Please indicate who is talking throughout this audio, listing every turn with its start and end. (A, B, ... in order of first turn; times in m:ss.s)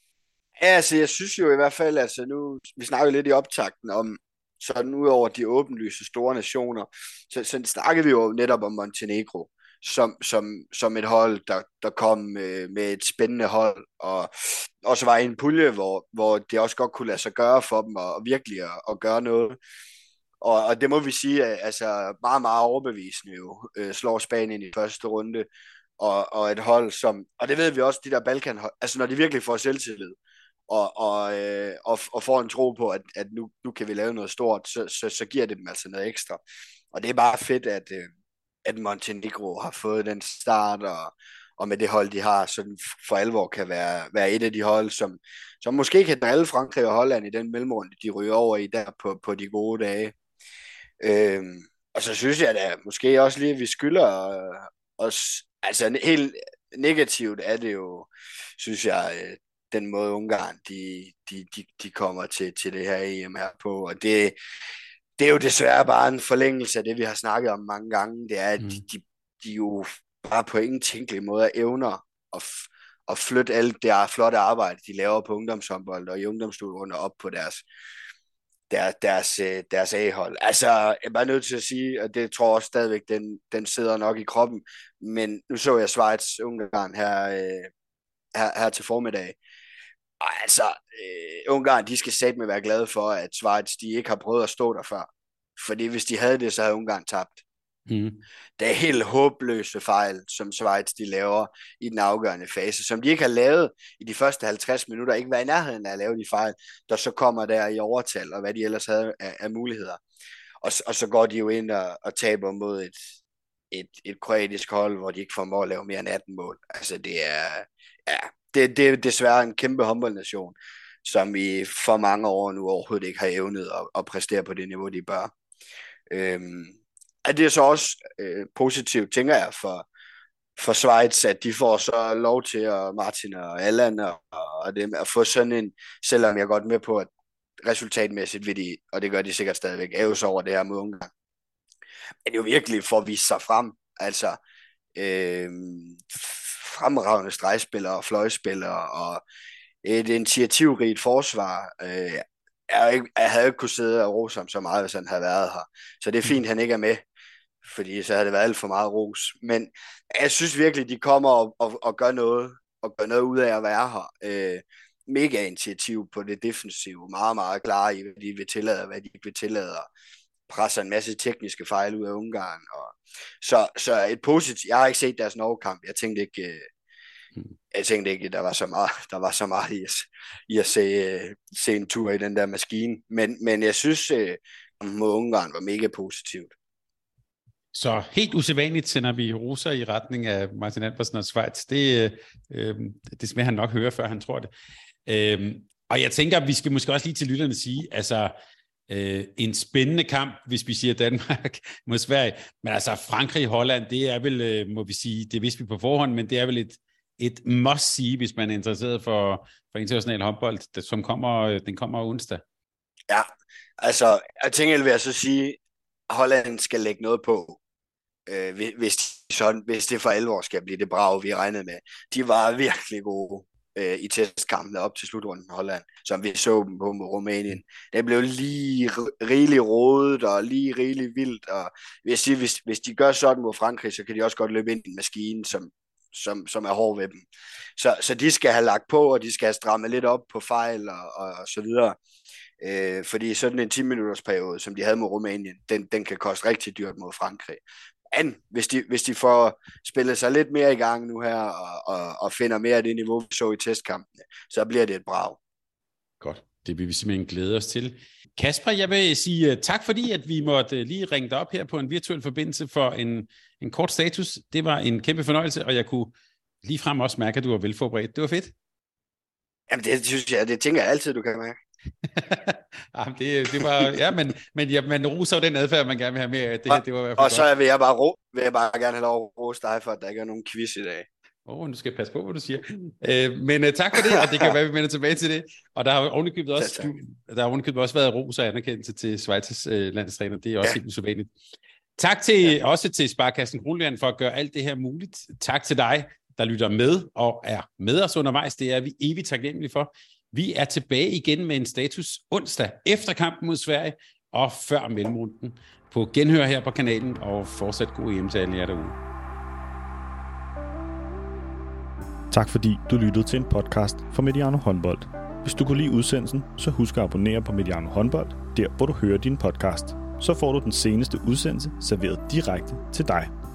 0:00.6-0:19.6 A
0:20.4-0:25.5 A
0:26.0-0:30.1 A
0:30.7-0:36.4 A
0:36.9-0:38.1 A
0:38.6-0:50.1 A
0:51.0-1:04.4 A
1:05.2-1:17.6 A
1:18.7-1:27.7 A
1:28.3-1:29.4 A
1:30.2-1:37.4 A
1:37.9-1:38.2 B
1:38.6-1:50.0 A
1:50.6-1:53.1 A
1:53.7-2:05.3 A
2:06.1-2:09.8 A
2:10.6-2:17.1 A
2:17.6-2:21.1 A
2:22.2-2:24.4 A
2:25.0-2:29.2 A
2:29.8-2:37.0 A
2:37.6-2:49.9 A
2:50.5-2:56.7 A
2:57.7-3:06.5 A
3:07.7-3:14.5 B
3:15.0-3:18.3 B
3:18.9-3:32.4 B
3:33.8-3:35.6 A
3:36.1-3:37.6 A
3:38.3-3:57.2 A
3:57.8-4:02.0 A
4:02.6-4:15.4 A
4:16.2-4:26.1 B
4:26.6-4:28.5 B
4:29.7-4:31.6 A
4:32.1-4:37.4 B
4:36.7-4:41.1 A
4:41.4-4:51.3 B
4:46.6-4:46.9 A
4:52.0-5:09.0 B
5:12.3-5:23.3 C